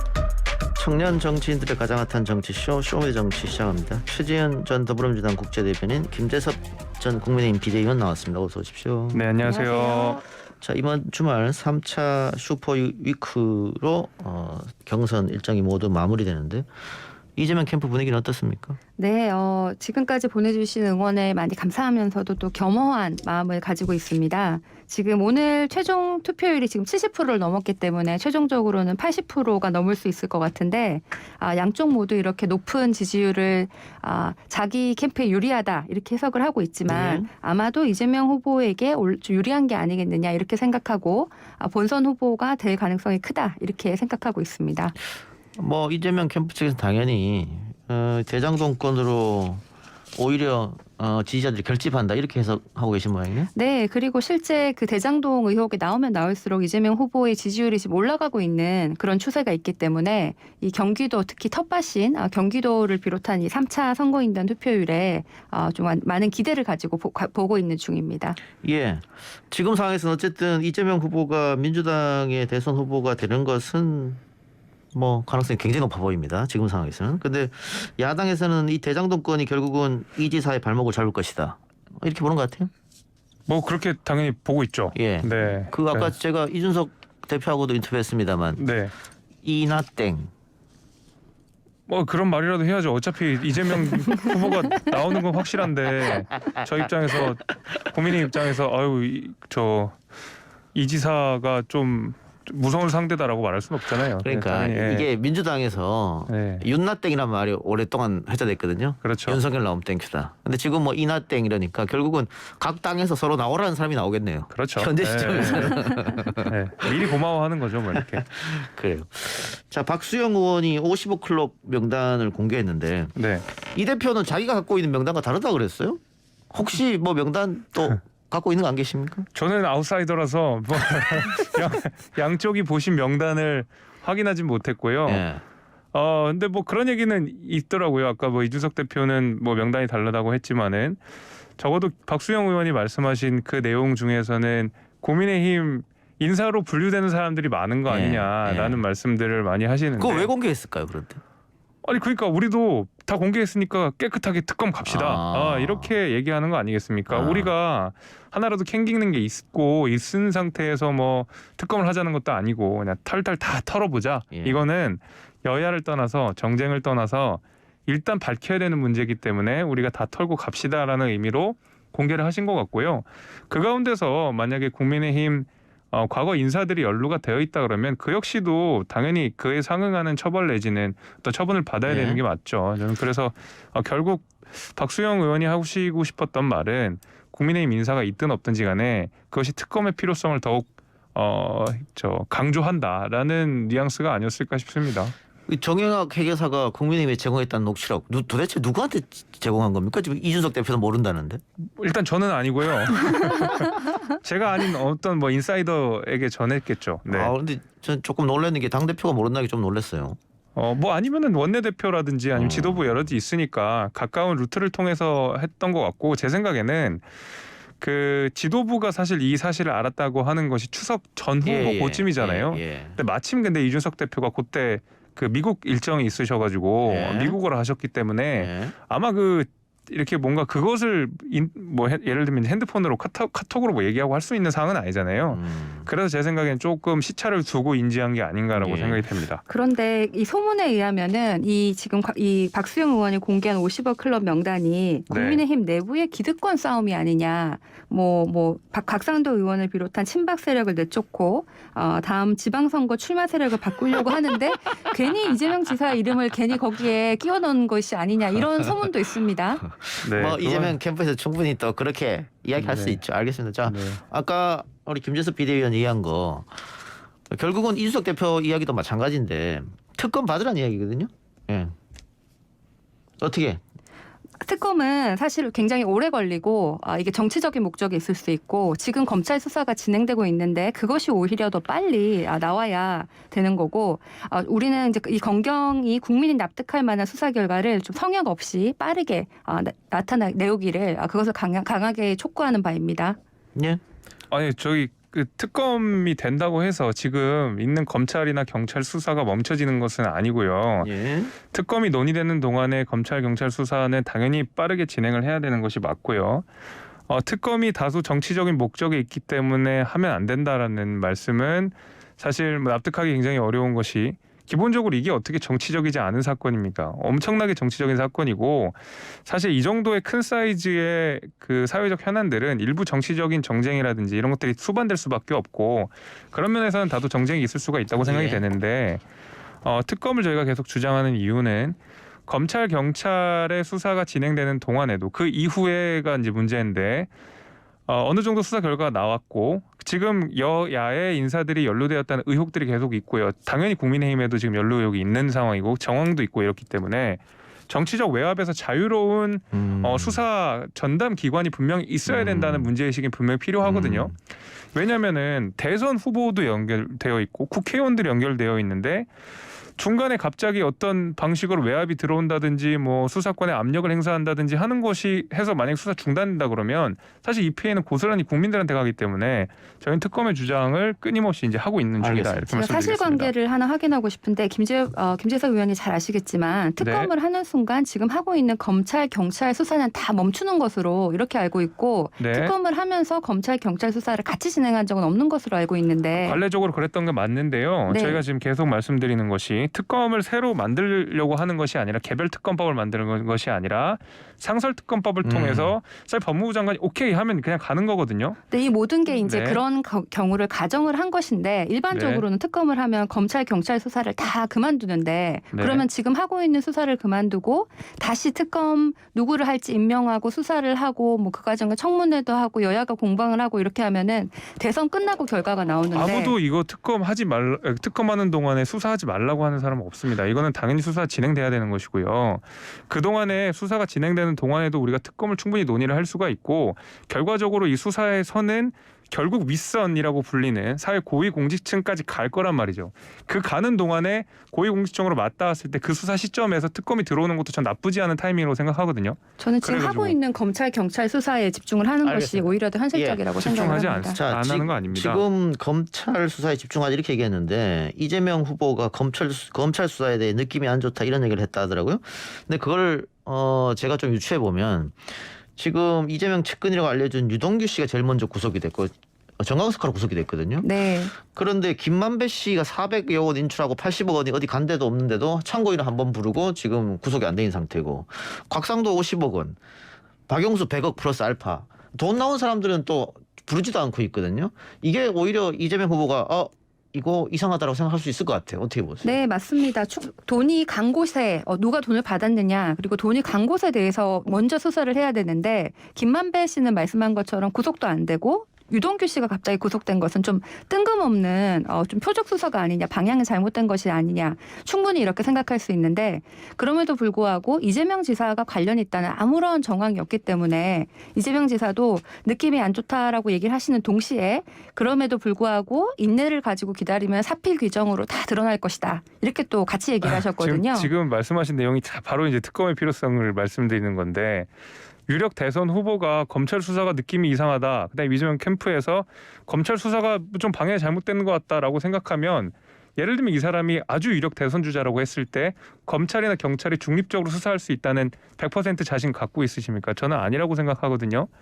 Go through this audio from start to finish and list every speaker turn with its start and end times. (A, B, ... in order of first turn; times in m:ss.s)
0:00.8-0:09.2 A
0:09.1-0:10.2 B
0:09.4-0:10.2 C
0:10.6-0:16.7 A
0:17.4-0:18.8 A
0:19.0-0:45.0 C
0:36.9-0:37.3 A
0:45.6-0:49.6 A
0:50.2-0:53.5 A
0:53.5-1:08.4 C
1:08.6-1:14.2 A
1:14.9-1:22.7 A
1:23.5-1:26.1 B
1:25.0-1:28.6 A
1:28.6-1:28.9 B
1:29.4-1:30.3 A
1:31.9-1:40.0 B
1:36.5-1:38.5 A
1:40.8-1:45.1 B
1:44.1-1:57.2 A
1:46.3-1:46.7 B
1:49.0-1:49.4 B
1:54.5-1:58.3 B
1:57.9-2:06.0 A
2:03.2-2:03.5 B
2:06.5-2:09.3 A
2:09.3-2:15.2 B
2:15.1-2:15.4 A
2:15.9-2:21.0 B
2:21.6-2:30.3 B
2:27.9-2:28.8 A
2:30.0-2:31.2 A
2:31.8-3:15.2 B
2:34.8-2:36.0 A
2:37.1-2:37.5 A
2:44.3-2:44.6 A
3:01.9-3:02.2 A
3:15.5-3:21.4 A
3:21.8-3:27.3 B
3:27.1-3:30.2 A
3:30.6-3:37.0 B
3:32.4-3:33.0 A
3:37.8-3:59.4 B
3:41.4-3:43.0 A
3:46.8-3:47.4 A
3:48.4-3:48.8 A
3:55.3-3:55.9 A
3:58.5-3:59.0 A
3:59.5-4:19.6 C
4:05.1-4:05.4 B
4:19.6-4:26.6 A
4:20.0-4:20.8 B
4:22.6-4:23.0 B
4:23.7-4:24.0 B
4:27.3-4:31.8 A
4:33.2-4:33.6 A
4:34.4-4:53.2 C
4:53.6-4:53.8 A
4:54.3-5:00.9 B
5:00.8-5:01.3 A
5:01.5-5:06.5 B
5:07.1-5:29.0 B
5:28.0-5:28.4 A
5:29.6-5:37.1 B
5:37.9-5:54.2 B
5:49.5-5:50.2 A
5:52.1-5:52.7 A
5:53.6-5:54.1 A
5:54.7-5:59.1 B
5:59.8-6:13.3 B
6:12.0-6:12.5 A
6:12.5-6:26.4 C
6:16.8-6:17.1 B
6:22.2-6:22.5 B
6:26.2-6:38.4 B
6:27.9-6:28.2 C
6:35.2-6:35.7 A
6:38.5-6:56.4 C
6:39.2-6:39.6 B
6:41.9-6:42.2 B
6:45.5-6:45.8 B
6:56.0-7:20.2 B
7:19.4-7:24.2 C
7:22.0-7:49.6 A
7:23.4-7:25.2 B
7:40.6-7:41.1 C
7:50.3-7:59.2 A
7:59.0-8:30.9 C
8:30.0-8:34.5 B
8:35.1-8:51.3 B